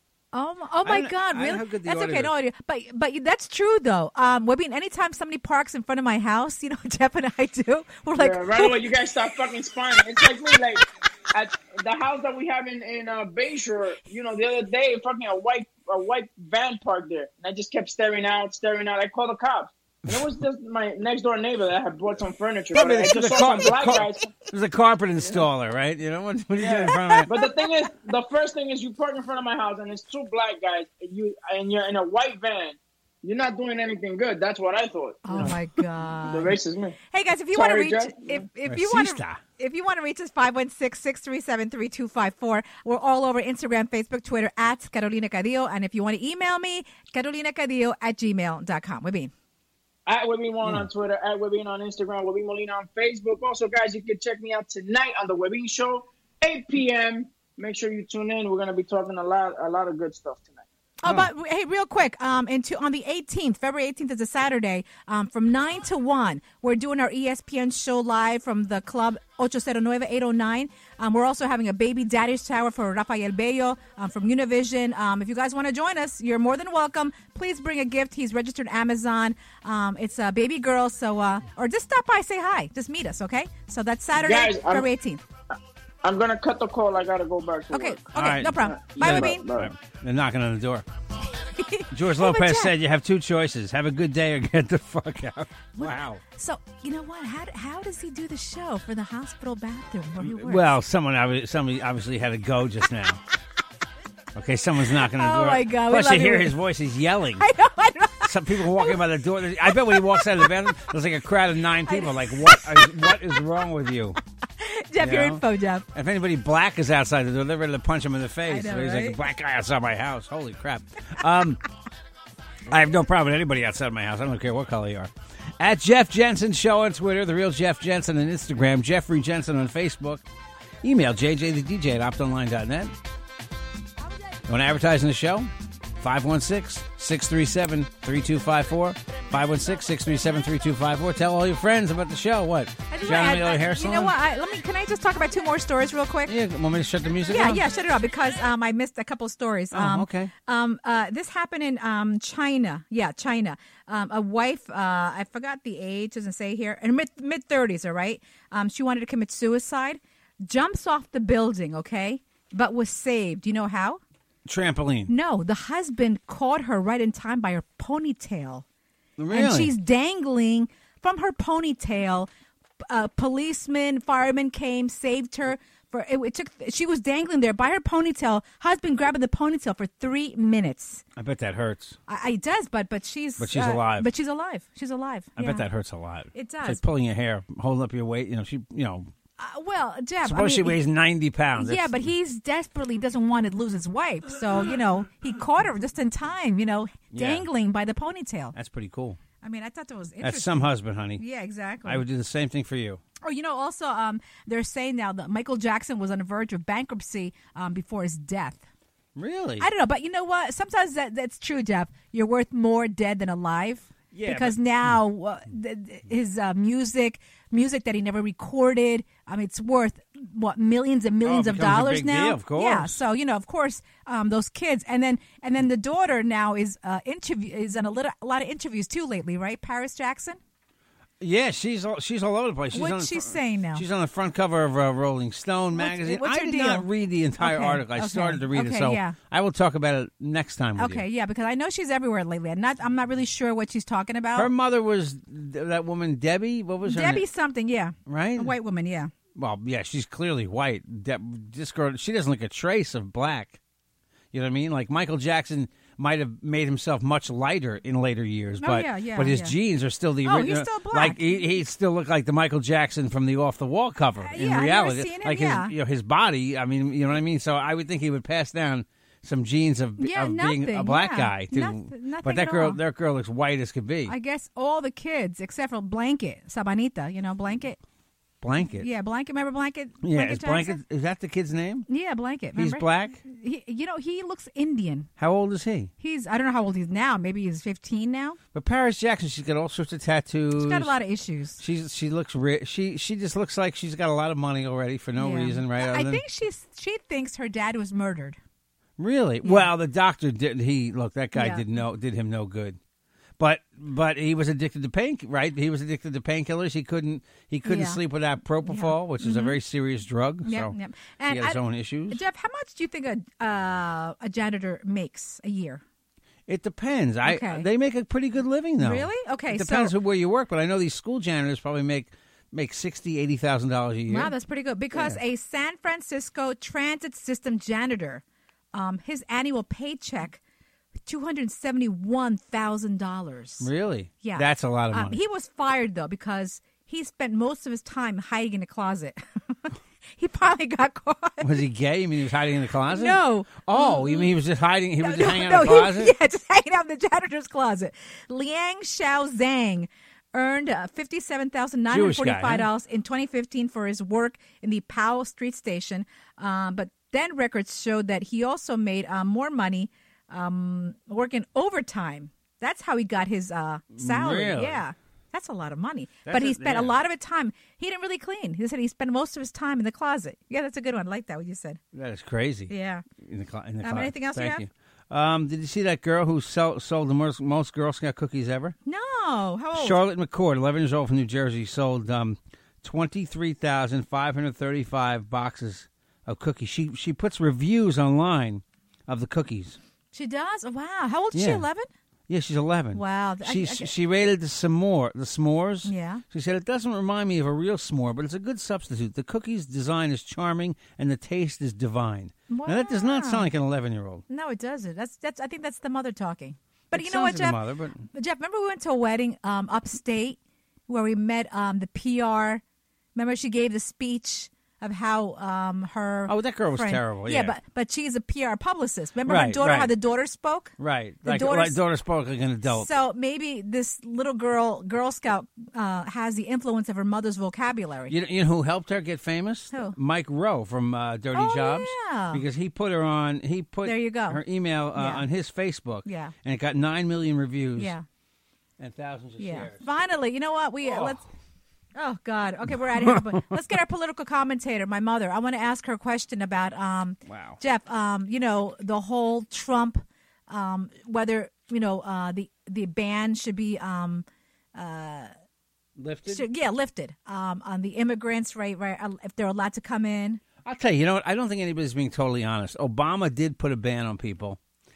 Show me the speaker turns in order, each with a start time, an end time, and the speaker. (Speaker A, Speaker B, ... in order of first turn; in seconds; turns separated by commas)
Speaker A: 0.3-8.9, Speaker B: 0.8-2.3, Speaker C: 8.2-24.4, Speaker B: 22.7-27.3, Speaker C: 26.6-35.6, Speaker A: 26.9-27.5, Speaker A: 35.2-36.6, Speaker C: 36.2-37.0, Speaker A: 37.1-49.3, Speaker C: 37.5-38.4, Speaker B: 38.7-39.4, Speaker C: 50.1-60.6, Speaker A: 61.0-85.2, Speaker C: 84.2-84.9, Speaker C: 86.0-89.7, Speaker A: 87.7-89.4, Speaker B: 88.1-90.8, Speaker A: 91.5-92.7, Speaker B: 91.9-96.2, Speaker A: 95.8-100.7, Speaker B: 100.2-103.2, Speaker B: 104.3-107.5, Speaker A: 105.0-106.5, Speaker A: 107.4-109.0, Speaker B: 108.2-114.2, Speaker A: 109.6-110.5, Speaker A: 111.8-113.4, Speaker A: 114.6-115.8, Speaker B: 115.0-115.4, Speaker B: 115.9-121.6, Speaker A: 118.5-119.2, Speaker B: 122.7-130.2, Speaker B: 130.8-132.9, Speaker B: 134.5-144.1, Speaker A: 142.9-146.3, Speaker B: 146.3-147.6, Speaker A: 147.3-164.0, Speaker B: 149.7-150.3, Speaker B: 164.4-165.1, Speaker A: 165.1-168.6, Speaker B: 169.2-169.7, Speaker A: 169.3-172.3, Speaker A: 172.9-181.0, Speaker B: 181.2-182.0, Speaker A: 182.1-185.7, Speaker B: 183.4-184.1, Speaker B: 185.4-189.1, Speaker A: 186.3-186.8, Speaker A: 189.4-190.8, Speaker B: 190.2-192.1, Speaker A: 191.6-198.5, Speaker B: 197.1-197.5, Speaker B: 198.5-199.2, Speaker A: 199.4-202.0, Speaker B: 200.2-201.2, Speaker B: 201.8-203.0, Speaker A: 203.2-208.6, Speaker B: 209.2-209.7, Speaker A: 209.6-230.4, Speaker B: 214.1-214.6, Speaker B: 221.2-223.0, Speaker B: 231.2-241.0, Speaker A: 232.7-233.8, Speaker A: 235.7-236.9, Speaker A: 237.4-239.2, Speaker A: 240.8-244.5, Speaker B: 244.3-247.2, Speaker A: 246.8-249.1, Speaker B: 248.1-248.5, Speaker B: 249.3-253.6, Speaker B: 254.3-274.1, Speaker A: 258.6-259.5, Speaker A: 260.2-261.4, Speaker A: 264.2-265.7, Speaker A: 270.0-272.8, Speaker A: 274.1-277.8, Speaker B: 278.4-278.9, Speaker A: 278.7-280.8, Speaker B: 280.0-281.9, Speaker A: 281.9-285.1, Speaker B: 282.5-283.2, Speaker B: 285.2-285.9, Speaker A: 286.0-288.4, Speaker B: 288.5-290.9, Speaker A: 290.6-291.6, Speaker B: 291.6-296.2, Speaker A: 295.2-298.4, Speaker B: 299.0-302.8, Speaker A: 299.4-299.7, Speaker A: 301.3-301.6, Speaker B: 303.4-310.7, Speaker A: 307.6-308.0, Speaker A: 308.6-309.6, Speaker A: 310.4-315.8, Speaker B: 311.3-312.2, Speaker B: 316.5-324.3, Speaker A: 317.2-317.7, Speaker A: 318.8-319.9, Speaker A: 324.1-328.2, Speaker B: 324.9-325.2, Speaker A: 328.7-330.4, Speaker A: 331.1-333.7, Speaker B: 333.6-335.2, Speaker A: 334.2-341.6, Speaker B: 341.4-346.1, Speaker A: 342.9-344.3, Speaker A: 345.0-371.8, Speaker B: 351.9-352.7, Speaker B: 364.0-364.8, Speaker B: 366.2-366.9, Speaker B: 371.9-378.7, Speaker A: 372.7-373.0, Speaker A: 373.8-374.6, Speaker A: 378.8-380.0, Speaker B: 379.7-389.8, Speaker A: 390.1-391.9, Speaker B: 391.3-391.6, Speaker B: 392.3-404.2, Speaker A: 392.9-393.9, Speaker A: 395.8-396.2, Speaker A: 402.5-403.5, Speaker A: 404.3-407.6, Speaker B: 406.9-408.1, Speaker A: 408.1-412.6, Speaker A: 413.1-421.8, Speaker B: 416.3-417.5, Speaker B: 419.2-419.9, Speaker B: 420.8-422.9, Speaker A: 422.7-428.1, Speaker B: 428.1-437.9, Speaker A: 431.3-432.4, Speaker A: 433.8-434.4, Speaker A: 434.9-435.2, Speaker A: 436.0-436.3, Speaker A: 437.8-438.0, Speaker B: 438.8-439.8, Speaker A: 439.4-441.2, Speaker B: 440.8-441.2, Speaker A: 441.9-455.3, Speaker B: 442.9-443.4, Speaker B: 447.2-447.6, Speaker B: 456.0-456.4, Speaker A: 456.3-460.4, Speaker B: 460.6-464.6